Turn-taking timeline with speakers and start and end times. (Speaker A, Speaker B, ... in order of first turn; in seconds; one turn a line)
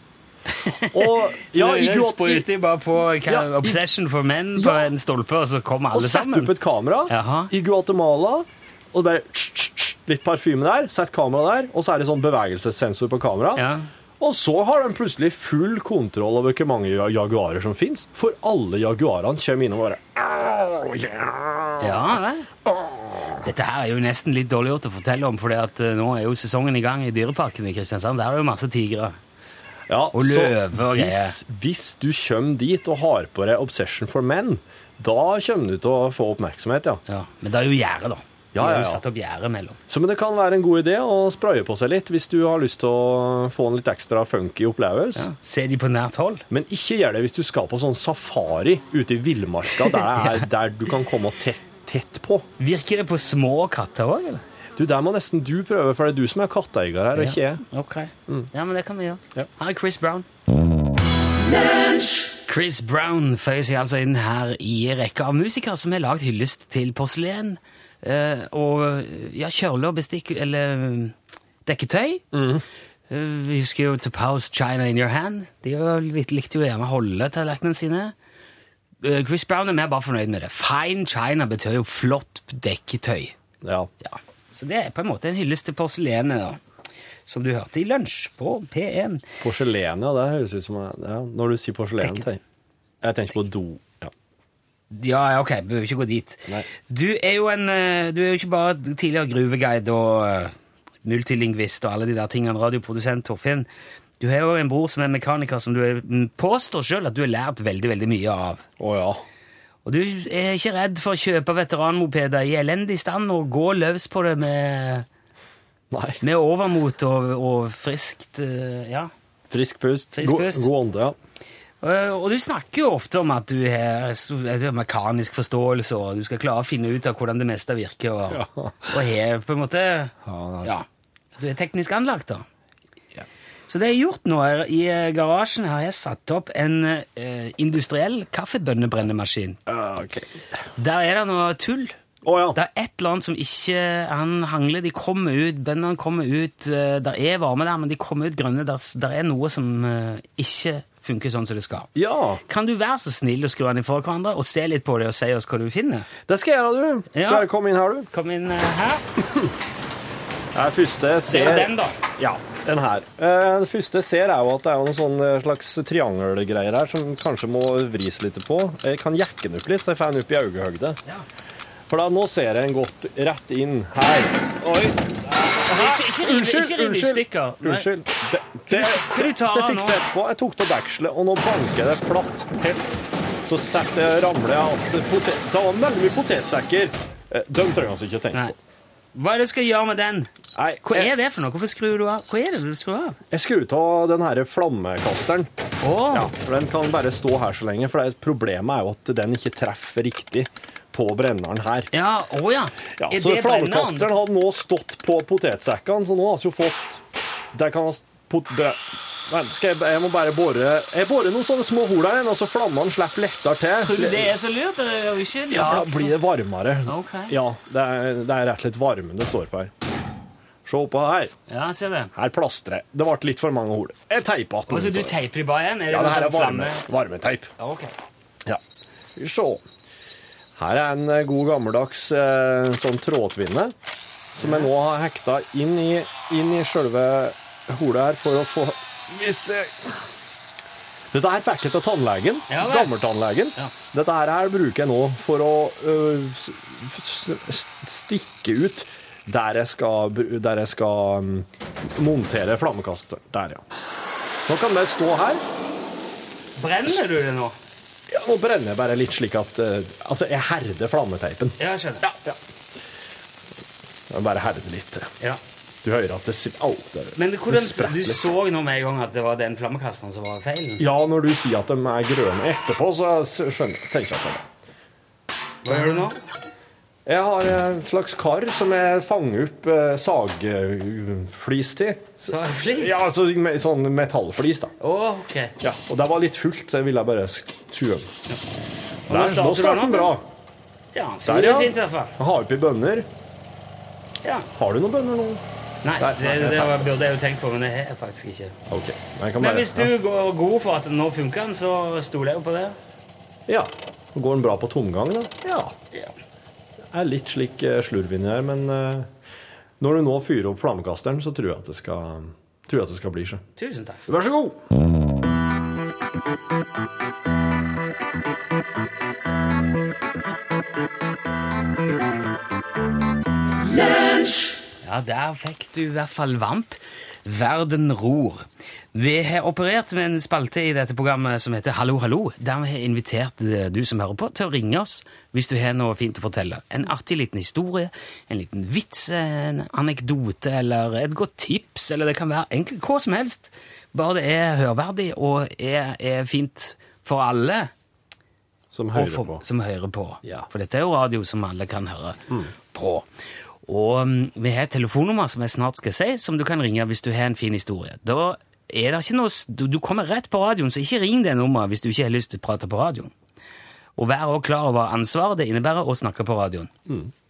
Speaker A: 0.6-6.5
Speaker B: 0.9-2.5
Speaker B: 3.2-3.8
Speaker B: 4.6-4.9
Speaker B: 5.9-13.7
Speaker A: 7.1-7.5
Speaker A: 13.6-13.9
Speaker B: 14.2-23.5
Speaker A: 21.8-22.5
Speaker A: 23.4-29.2
Speaker B: 29.9-37.0
Speaker A: 30.1-31.4
Speaker A: 37.1-39.8
Speaker B: 38.5-39.0
Speaker B: 39.9-45.3
Speaker A: 45.2-46.4
Speaker B: 46.5-52.5
Speaker A: 49.8-50.4
Speaker A: 52.6-54.4
Speaker B: 54.8-57.6
Speaker A: 57.1-60.3
Speaker A: 62.5-72.2
Speaker B: 72.3-72.6
Speaker A: 73.1-78.1
Speaker A: 79.0-83.4
Speaker B: 83.6-83.9
Speaker A: 84.0-86.6
Speaker A: 87.3-89.2
Speaker B: 89.4-92.4
Speaker B: 93.0-94.1
Speaker A: 94.9-103.7
Speaker A: 104.2-108.7
Speaker B: 108.8-109.2
Speaker A: 109.8-115.1
Speaker B: 115.9-116.2
Speaker A: 116.2-119.1
Speaker B: 119.5-121.2
Speaker A: 120.1-120.7
Speaker A: 121.8-130.9
Speaker B: 128.3-128.9
Speaker B: 130.2-130.7
Speaker A: 131.4-132.4
Speaker A: 133.7-139.6
Speaker B: 139.7-140.4
Speaker A: 140.8-141.9
Speaker B: 142.2-142.6
Speaker A: 142.6-151.9
Speaker B: 151.9-152.4
Speaker A: 152.5-156.1
Speaker B: 156.3-158.1
Speaker A: 157.1-157.5
Speaker A: 158.1-159.1
Speaker B: 160.5-171.0
Speaker A: 161.3-162.0
Speaker B: 171.9-182.9
Speaker A: 175.3-177.9
Speaker A: 178.7-180.0
Speaker B: 183.4-188.6
Speaker A: 189.2-190.3
Speaker B: 190.6-191.1
Speaker A: 190.8-193.2
Speaker B: 193.3-195.5
Speaker A: 195.8-196.3
Speaker B: 196.1-201.9
Speaker A: 201.9-204.1
Speaker B: 203.0-214.3
Speaker A: 213.8-216.2
Speaker B: 215.5-219.7
Speaker A: 216.9-217.3
Speaker B: 220.7-221.3
Speaker A: 221.5-222.1
Speaker B: 222.2-225.2
Speaker A: 224.7-226.9
Speaker B: 225.9-227.5
Speaker A: 227.6-227.9
Speaker B: 229.2-229.6
Speaker B: 230.6-233.8
Speaker B: 234.3-240.0
Speaker B: 241.1-253.6
Speaker A: 242.5-242.9
Speaker B: 254.5-255.4
Speaker A: 256.6-257.6
Speaker B: 258.1-262.4
Speaker A: 261.6-262.1
Speaker B: 264.1-265.1
Speaker B: 265.8-268.2
Speaker A: 267.2-270.8
Speaker B: 270.8-274.5
Speaker A: 275.6-276.2
Speaker B: 275.7-276.1
Speaker B: 277.1-284.8
Speaker A: 282.2-283.0
Speaker A: 284.8-285.5
Speaker B: 285.6-288.1
Speaker A: 289.1-290.1
Speaker B: 289.1-290.3
Speaker A: 290.9-292.1
Speaker B: 291.2-293.1
Speaker B: 294.5-295.4
Speaker A: 295.8-298.6
Speaker B: 296.0-296.9
Speaker B: 298.7-299.9
Speaker A: 299.4-302.8
Speaker B: 303.5-305.8
Speaker B: 306.9-309.1
Speaker B: 309.8-313.4
Speaker A: 313.6-314.1
Speaker B: 314.1-314.6
Speaker A: 324.8-347.7
Speaker B: 348.7-349.4
Speaker A: 348.9-352.2
Speaker A: 352.7-353.1
Speaker A: 353.7-363.1
Speaker A: 364.0-366.7